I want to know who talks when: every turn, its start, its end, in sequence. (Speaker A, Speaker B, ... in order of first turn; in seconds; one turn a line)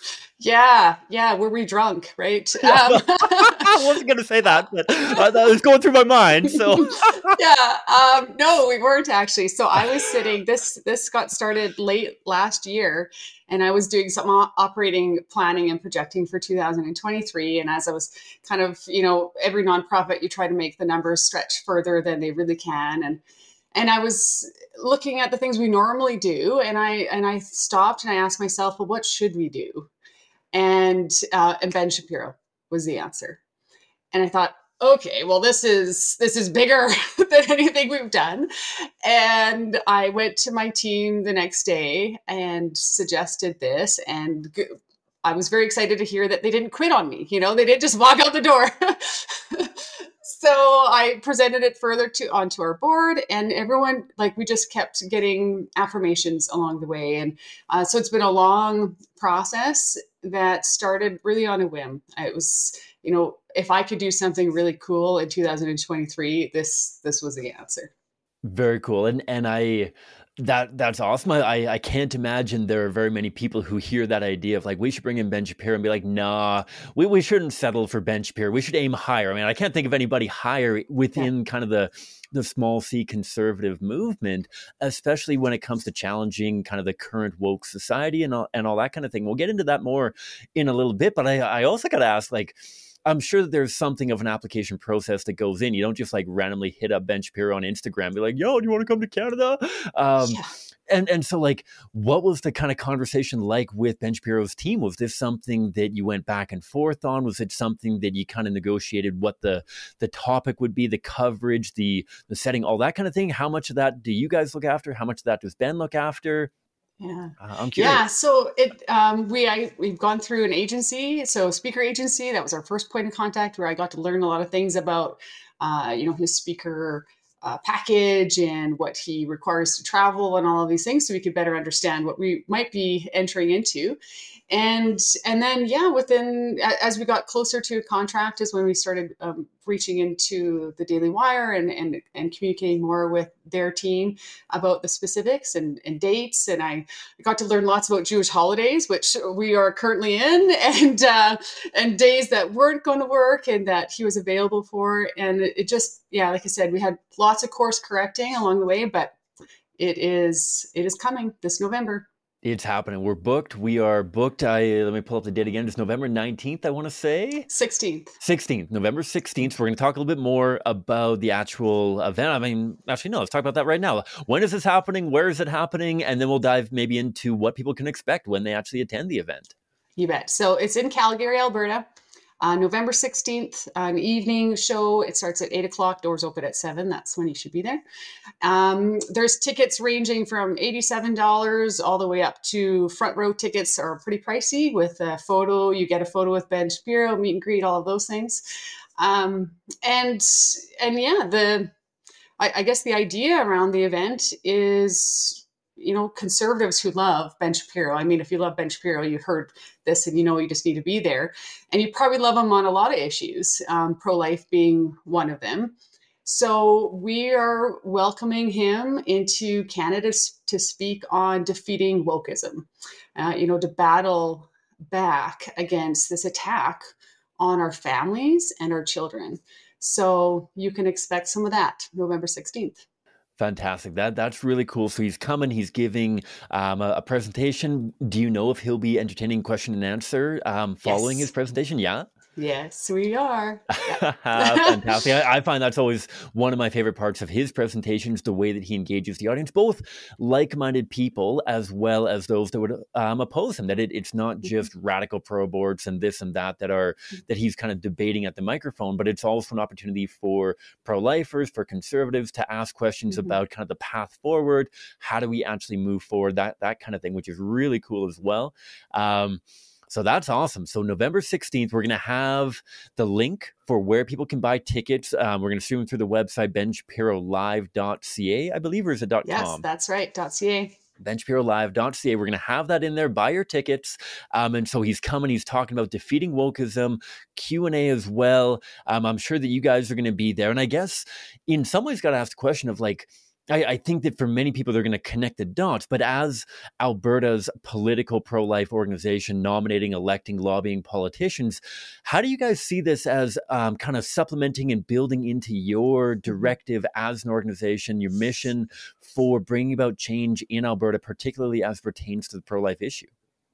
Speaker A: 0.4-3.8
Speaker B: 2.6-7.4
Speaker A: 6.7-23.2
Speaker A: 23.7-29.9
Speaker A: 30.5-33.4
Speaker A: 34.1-67.9
Speaker B: 68.4-116.5
Speaker A: 100.2-100.5
Speaker A: 117.0-134.0
Speaker B: 117.4-118.0
Speaker A: 134.5-159.1
Speaker A: 159.8-162.1
Speaker B: 162.4-167.5
Speaker A: 167.5-168.1
Speaker B: 168.2-179.5
Speaker A: 180.0-181.8
Speaker A: 182.4-187.8
Speaker A: 188.4-198.4
Speaker A: 199.0-201.7
Speaker A: 202.4-232.8
Speaker B: 233.4-242.1
Speaker A: 240.8-241.3
Speaker A: 242.3-245.0
Speaker B: 243.7-279.6
Speaker A: 263.1-263.4
Speaker A: 279.2-280.7
Speaker B: 281.0-313.1